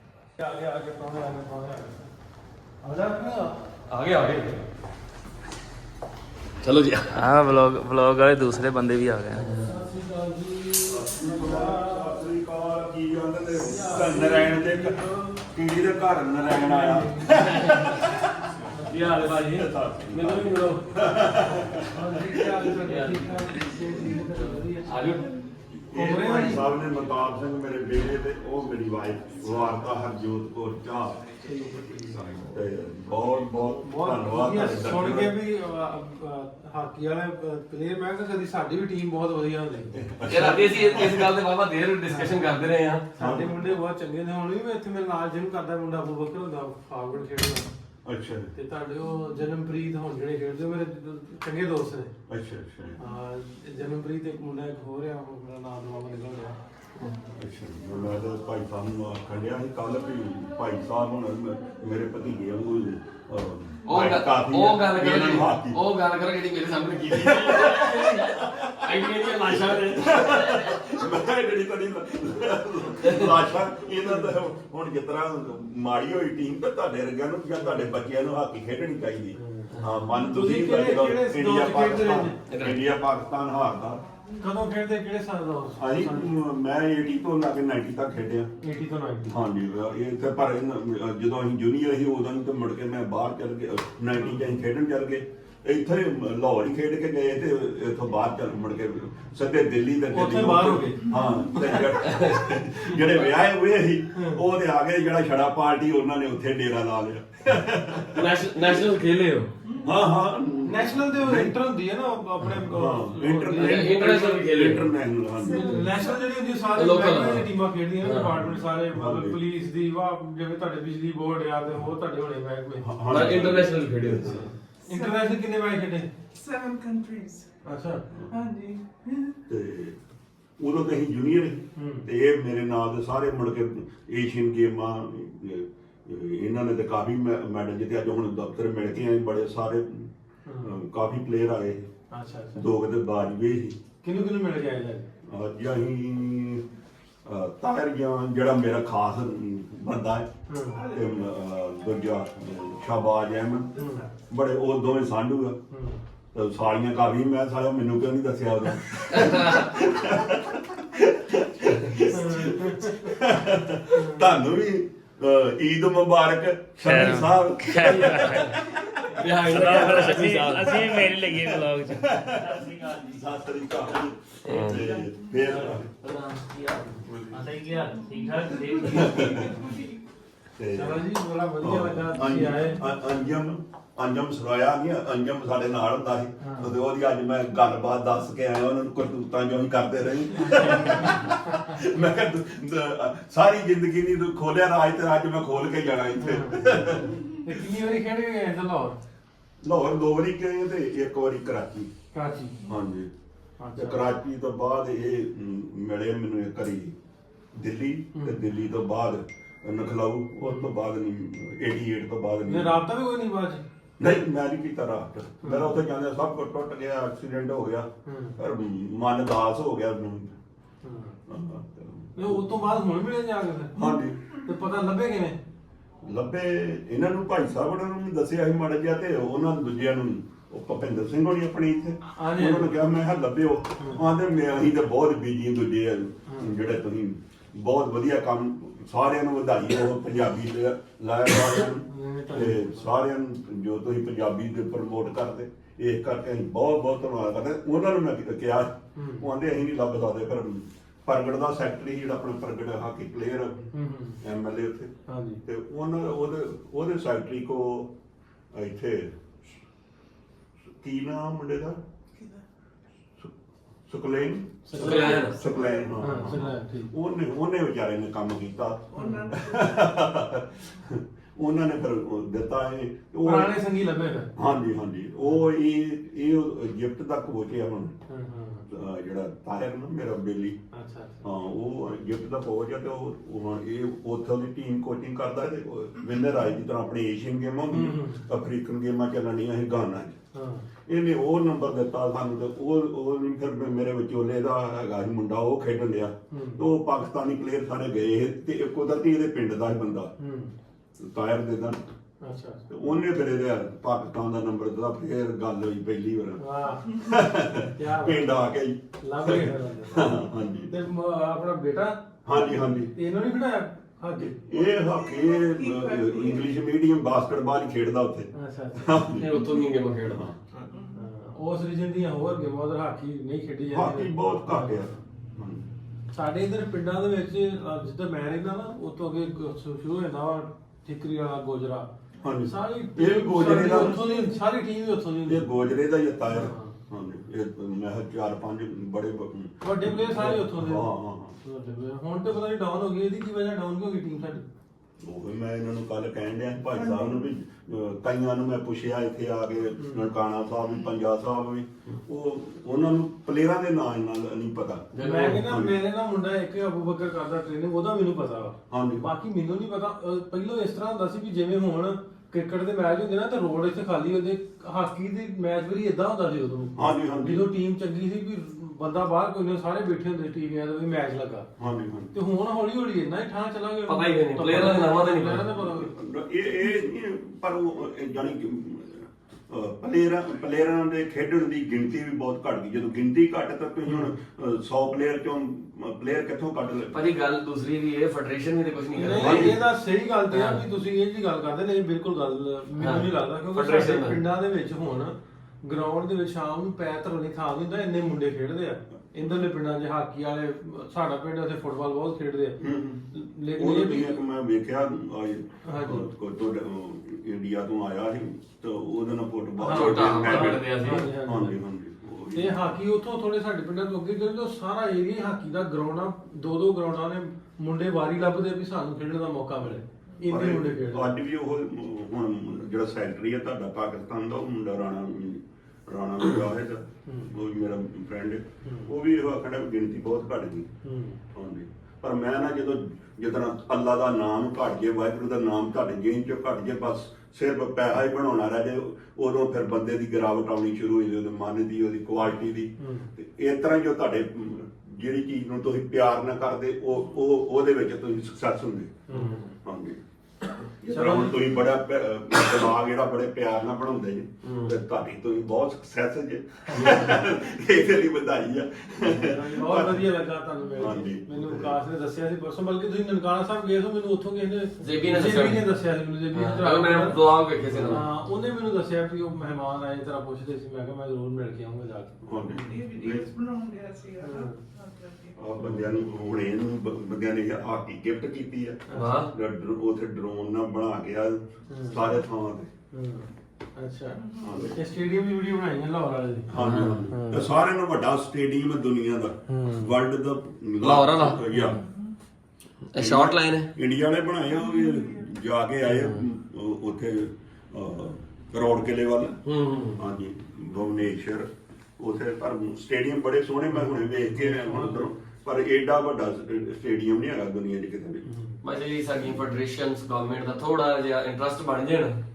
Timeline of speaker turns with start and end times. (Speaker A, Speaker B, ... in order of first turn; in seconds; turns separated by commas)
Speaker A: 0.4-2.1, Speaker A: 2.8-3.6, Speaker B: 3.9-4.6, Speaker B: 6.6-7.3, Speaker C: 7.1-9.4, Speaker B: 9.3-9.8, Speaker A: 9.5-12.2, Speaker D: 10.9-15.0, Speaker A: 13.6-15.4, Speaker D: 15.5-18.2, Speaker A: 16.5-17.8, Speaker A: 18.8-19.0, Speaker B: 18.9-20.9, Speaker D: 19.0-22.7, Speaker A: 21.9-25.1, Speaker B: 22.9-23.4, Speaker E: 24.0-24.3, Speaker B: 24.9-25.2, Speaker E: 25.1-25.5, Speaker D: 25.9-31.3, Speaker A: 25.9-26.7, Speaker A: 31.4-32.6, Speaker D: 32.0-35.4, Speaker A: 33.8-39.9, Speaker D: 39.9-41.4, Speaker B: 40.3-43.1, Speaker A: 42.1-42.4, Speaker A: 43.2-47.7, Speaker D: 43.2-43.7, Speaker D: 48.0-48.5, Speaker A: 48.5-52.1, Speaker D: 52.3-53.0, Speaker A: 53.0-56.6, Speaker D: 57.3-65.8, Speaker B: 63.9-67.8, Speaker D: 67.1-84.0, Speaker A: 67.8-68.2, Speaker B: 68.8-70.5, Speaker B: 73.0-73.3, Speaker A: 77.6-77.9, Speaker A: 79.4-82.4, Speaker B: 82.5-82.8, Speaker A: 84.4-86.3, Speaker D: 85.8-88.5, Speaker A: 88.6-89.3, Speaker D: 89.3-108.7, Speaker A: 100.1-101.1, Speaker E: 101.1-101.9, Speaker A: 104.1-104.4, Speaker B: 108.2-109.5, Speaker E: 109.7-109.9, Speaker D: 109.8-111.5, Speaker A: 110.7-114.0, Speaker D: 112.7-115.8, Speaker B: 113.5-114.9, Speaker E: 115.4-116.4, Speaker A: 115.5-123.5, Speaker B: 116.7-117.5, Speaker B: 118.0-118.3, Speaker D: 118.4-119.4, Speaker D: 122.8-124.5, Speaker B: 123.1-124.5, Speaker A: 124.2-126.1, Speaker E: 124.9-125.4, Speaker E: 126.3-127.6, Speaker A: 127.6-128.1, Speaker E: 128.3-129.4, Speaker D: 129.5-130.0, Speaker D: 130.6-141.9, Speaker A: 131.8-132.1, Speaker A: 140.5-140.8, Speaker A: 142.1-142.6, Speaker D: 142.5-143.8, Speaker A: 144.0-145.1, Speaker D: 145.3-146.6, Speaker D: 147.2-150.3, Speaker A: 150.5-150.8, Speaker E: 150.7-151.3, Speaker D: 150.8-155.6, Speaker A: 153.8-154.1, Speaker E: 153.8-154.1, Speaker A: 155.7-156.0, Speaker D: 156.3-175.9, Speaker B: 159.2-159.6, Speaker A: 162.1-163.1, Speaker A: 163.9-164.3, Speaker C: 166.8-168.6, Speaker B: 167.9-168.4, Speaker B: 169.2-170.7, Speaker C: 169.5-172.1, Speaker F: 169.5-171.8, Speaker B: 174.5-174.9, Speaker E: 174.8-175.5, Speaker B: 176.0-177.0, Speaker F: 176.3-176.8, Speaker D: 177.0-177.5, Speaker F: 177.3-179.5, Speaker E: 177.7-180.0, Speaker D: 178.9-179.7, Speaker D: 180.6-181.1, Speaker A: 180.7-182.8, Speaker D: 181.6-197.2, Speaker A: 186.4-186.7, Speaker A: 190.4-191.2, Speaker A: 196.2-199.0, Speaker D: 199.6-201.9, Speaker A: 202.1-202.6, Speaker D: 202.7-203.1, Speaker A: 203.6-204.1, Speaker D: 203.8-206.9, Speaker D: 207.5-212.8, Speaker A: 210.4-210.7, Speaker A: 212.5-213.6, Speaker D: 214.0-220.4, Speaker A: 215.4-215.8, Speaker A: 218.1-218.4, Speaker A: 220.8-221.2, Speaker D: 221.3-222.4, Speaker A: 222.2-223.8, Speaker D: 223.8-224.2, Speaker A: 224.5-225.4, Speaker D: 226.0-253.7, Speaker A: 232.2-232.8, Speaker A: 236.3-236.5, Speaker A: 241.9-242.9, Speaker A: 249.0-249.3, Speaker A: 253.7-254.2, Speaker D: 254.2-254.9, Speaker A: 255.1-255.4, Speaker D: 255.4-257.9, Speaker D: 258.5-259.1, Speaker D: 260.8-261.8, Speaker E: 262.1-262.4, Speaker D: 263.9-273.6, Speaker A: 264.7-265.4, Speaker B: 264.8-265.4, Speaker A: 266.0-266.9, Speaker E: 268.9-270.0, Speaker A: 269.0-269.3, Speaker A: 273.2-274.3, Speaker D: 274.4-278.0, Speaker A: 278.1-278.7, Speaker D: 278.7-280.6, Speaker A: 280.7-281.2, Speaker D: 281.2-290.2, Speaker A: 287.7-288.3, Speaker A: 290.3-290.7, Speaker D: 290.9-300.1, Speaker A: 296.3-296.7, Speaker A: 300.2-300.5, Speaker D: 301.0-301.8, Speaker A: 302.2-302.7, Speaker D: 302.7-306.4, Speaker A: 306.4-306.8, Speaker E: 306.8-307.2, Speaker D: 307.1-310.8, Speaker A: 307.8-308.3, Speaker A: 309.0-314.4, Speaker D: 312.2-312.9, Speaker D: 314.4-319.5, Speaker E: 314.6-316.6, Speaker A: 318.3-319.1, Speaker B: 319.2-320.2, Speaker D: 320.1-320.4, Speaker A: 320.6-324.9, Speaker E: 320.7-321.1, Speaker D: 323.7-325.7, Speaker A: 326.1-331.9, Speaker D: 332.2-334.3, Speaker A: 332.5-335.5, Speaker D: 335.2-341.4, Speaker A: 336.3-336.8, Speaker A: 339.6-340.9, Speaker A: 341.4-344.4, Speaker D: 345.0-355.8, Speaker E: 346.8-347.3, Speaker A: 349.8-350.1, Speaker B: 354.9-355.4, Speaker A: 355.0-371.5, Speaker D: 358.7-359.1, Speaker D: 366.8-367.5, Speaker D: 371.6-372.1, Speaker A: 372.1-375.9, Speaker B: 373.9-375.5, Speaker D: 375.6-387.0, Speaker A: 383.9-384.1, Speaker B: 386.9-389.6, Speaker A: 388.9-402.6, Speaker D: 389.1-389.6, Speaker B: 390.3-390.6, Speaker B: 392.8-394.2, Speaker D: 402.6-412.7, Speaker A: 403.1-404.2, Speaker A: 405.6-406.1, Speaker A: 409.6-411.6, Speaker B: 409.7-411.1, Speaker A: 412.3-421.1, Speaker D: 419.7-430.7, Speaker A: 427.1-427.3, Speaker A: 428.6-428.9, Speaker A: 430.8-431.2, Speaker D: 431.3-450.0, Speaker A: 442.8-443.1, Speaker A: 449.1-449.5, Speaker D: 450.8-460.1, Speaker A: 450.9-451.6, Speaker A: 456.7-457.1, Speaker A: 459.1-467.2, Speaker D: 460.8-461.8, Speaker B: 464.8-465.7, Speaker B: 466.3-468.1, Speaker A: 467.7-472.9, Speaker D: 472.2-473.3, Speaker E: 472.5-475.5, Speaker A: 474.2-474.6, Speaker D: 475.4-482.7, Speaker A: 478.9-479.2, Speaker B: 478.9-479.3, Speaker A: 481.7-482.0, Speaker A: 482.9-484.2, Speaker E: 484.2-484.7, Speaker D: 484.4-484.8, Speaker A: 484.7-486.5, Speaker D: 486.5-491.8, Speaker B: 486.6-487.0, Speaker A: 487.1-487.5, Speaker A: 489.5-489.9, Speaker B: 490.8-491.4, Speaker E: 491.6-492.2, Speaker B: 492.9-493.7, Speaker D: 493.0-499.4, Speaker E: 494.5-495.3, Speaker B: 499.4-500.0, Speaker D: 500.0-508.3, Speaker A: 503.7-505.1, Speaker A: 508.2-508.6, Speaker B: 508.6-512.2